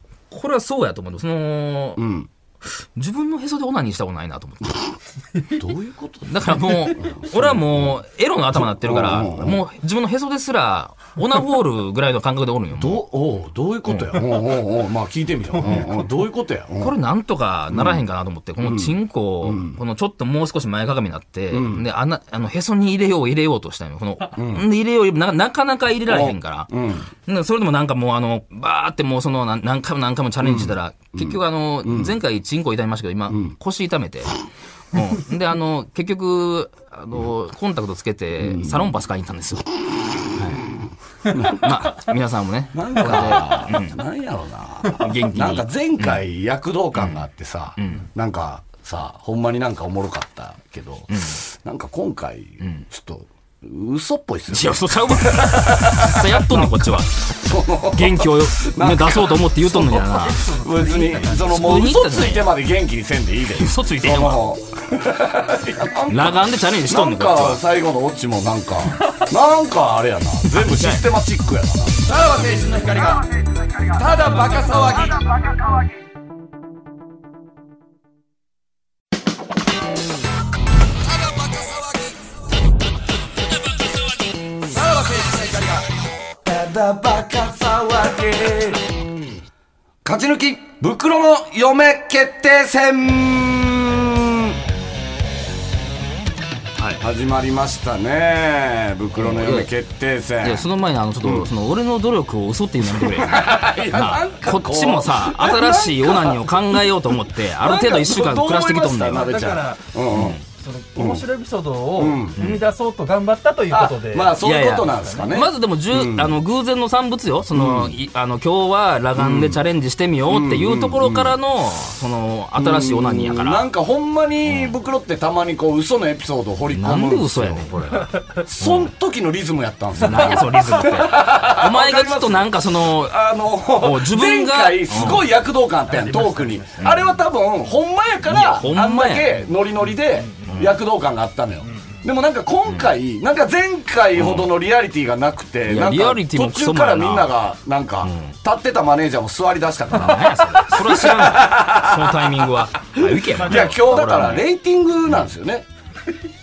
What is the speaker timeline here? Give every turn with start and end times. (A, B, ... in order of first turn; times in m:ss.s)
0:00.3-0:02.0 A
0:02.0-0:02.3 B
0:03.0-0:04.9 A
0:05.5-0:08.0 B
0:06.2-0:13.0 A
0:08.5-0:09.6 B
0:12.8-0:16.9 B
0:13.9-0:14.2 A
0:15.6-0:15.9 A
0:16.8-0:26.7 A
0:17.7-0:18.0 B
0:18.6-0:19.8 B
0:21.5-0:21.8 B
0:24.4-0:24.6 B
0:26.1-0:27.1 B
0:27.2-0:34.4 A
0:30.4-0:32.2 B
0:33.3-0:33.6 B
0:34.9-0:39.6 A
0:38.4-0:38.9 B
0:40.3-0:40.6 A
0:41.3-0:42.0 B
0:41.5-0:44.0 A
0:42.7-1:13.3 B
0:44.9-0:46.2 A
0:46.9-0:47.2 A
0:47.8-0:48.1 A
0:51.1-0:51.4 A
0:52.6-0:52.8 A
0:54.5-0:57.2 A
0:57.9-1:00.4 A
1:00.2-1:01.6 C
1:01.3-1:02.5 A
1:03.6-1:04.4 A
1:06.1-1:07.6 A
1:10.6-1:11.0 A
1:13.8-1:15.6 B
1:21.2-1:22.1 B
1:23.7-1:24.0 A
1:24.6-1:25.9 B
1:26.4-1:29.1 B
1:30.0-1:34.6 B
1:36.8-1:37.0 A
1:37.0-1:40.6 B
1:39.2-1:39.7 A
1:40.4-1:49.3 A
1:41.2-1:41.5 B
1:42.8-1:46.9 B
1:47.6-1:50.4 B
1:49.1-1:49.9 C
1:50.1-1:50.4 A
1:50.5-1:55.3 C
1:51.0-1:51.2 B
1:52.0-1:52.4 B
1:53.7-1:56.4 B
1:54.4-2:03.7 A
1:57.5-1:58.0 B
1:59.2-1:59.6 B
2:00.3-2:01.3 B
2:02.6-2:07.7 B
2:04.4-2:04.8 A
2:06.7-2:08.9 A
2:08.4-2:35.6 B
2:10.0-2:13.2 A
2:13.8-2:15.2 A
2:15.9-2:16.8 C
2:16.8-2:17.1 A
2:18.2-2:19.4 A
2:20.2-2:20.6 C
2:20.4-2:20.8 A
2:21.6-2:22.0 C
2:22.7-2:22.9 A
2:24.1-2:24.5 A
2:25.6-2:27.3 A
2:28.0-2:28.4 A
2:29.9-2:34.5 A
2:33.4-2:33.7 C